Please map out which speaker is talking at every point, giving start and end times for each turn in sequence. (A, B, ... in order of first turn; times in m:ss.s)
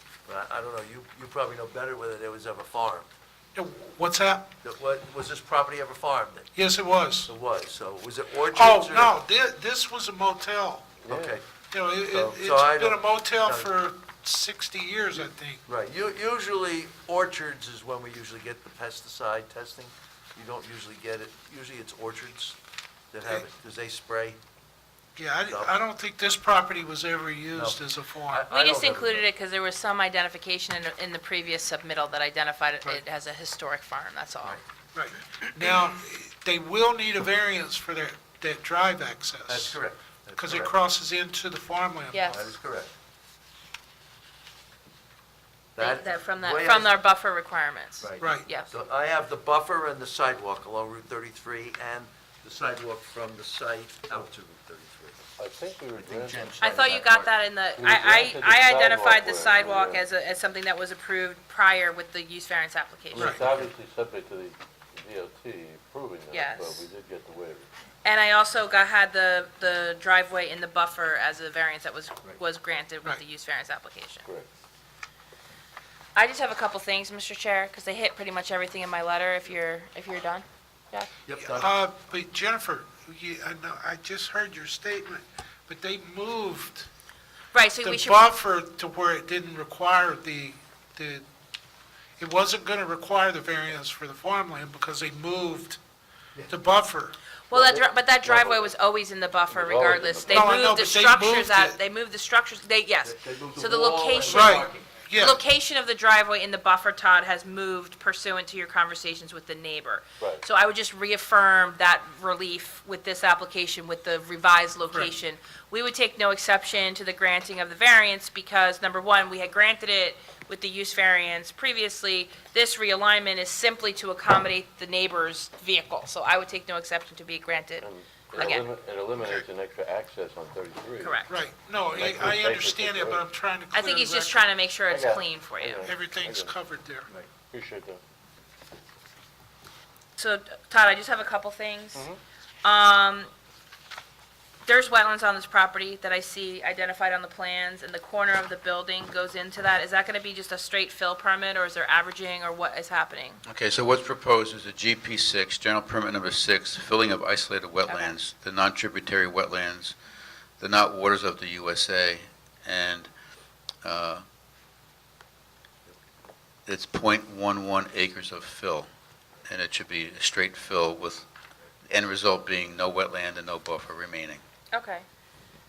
0:00.3-0:03.1 A
0:03.6-0:04.5 B
0:04.6-0:06.5 A
0:06.6-0:07.3 B
0:07.3-0:09.2 A
0:08.5-0:10.9 B
0:11.0-0:11.4 C
0:11.1-0:11.5 A
0:11.7-0:15.6 B
0:12.0-0:13.7 A
0:15.7-0:22.6 A
0:23.1-0:24.4 A
0:25.2-0:28.5 B
0:25.5-0:25.8 A
0:27.5-0:29.3 A
0:28.5-0:34.6 D
0:34.9-0:39.8 B
0:39.5-0:40.7 A
0:40.4-0:42.4 B
0:42.1-0:42.4 D
0:42.3-0:42.9 A
0:45.8-0:47.0 A
0:45.8-0:48.7 D
0:48.0-0:55.3 A
0:48.2-0:48.5 B
0:55.4-0:56.5 C
0:56.0-0:57.3 A
0:56.6-1:03.4 D
0:57.8-1:00.1 C
1:03.2-1:07.7 C
1:03.4-1:03.7 A
1:06.3-1:06.9 D
1:08.0-1:14.2 D
1:16.2-1:21.1 D
1:21.2-1:21.7 A
1:21.4-1:26.9 B
1:27.5-1:28.3 D
1:27.8-1:31.3 B
1:32.2-1:35.8 B
1:36.5-1:37.1 B
1:37.5-1:44.5 D
1:37.5-1:38.8 C
1:39.5-1:40.4 C
1:40.3-1:41.8 B
1:43.0-1:45.0 A
1:44.2-1:45.4 B
1:45.2-2:08.7 D
2:07.8-2:11.2 C
2:11.0-2:11.3 D
2:11.3-2:14.4 B
2:11.9-2:13.2 C
2:13.7-2:15.9 D
2:14.9-2:16.6 C
2:15.8-2:17.1 B
2:17.4-2:18.0 C
2:20.2-2:22.1 D
2:22.0-2:22.2 C
2:22.6-2:23.3 D
2:24.7-2:33.4 D
2:33.5-2:40.0 E
2:37.9-2:38.2 D
2:40.6-2:43.1 E
2:43.8-2:44.2 E
2:46.7-2:48.9 E
2:49.5-2:51.3 E
2:51.8-2:54.4 E
2:54.7-2:55.0 D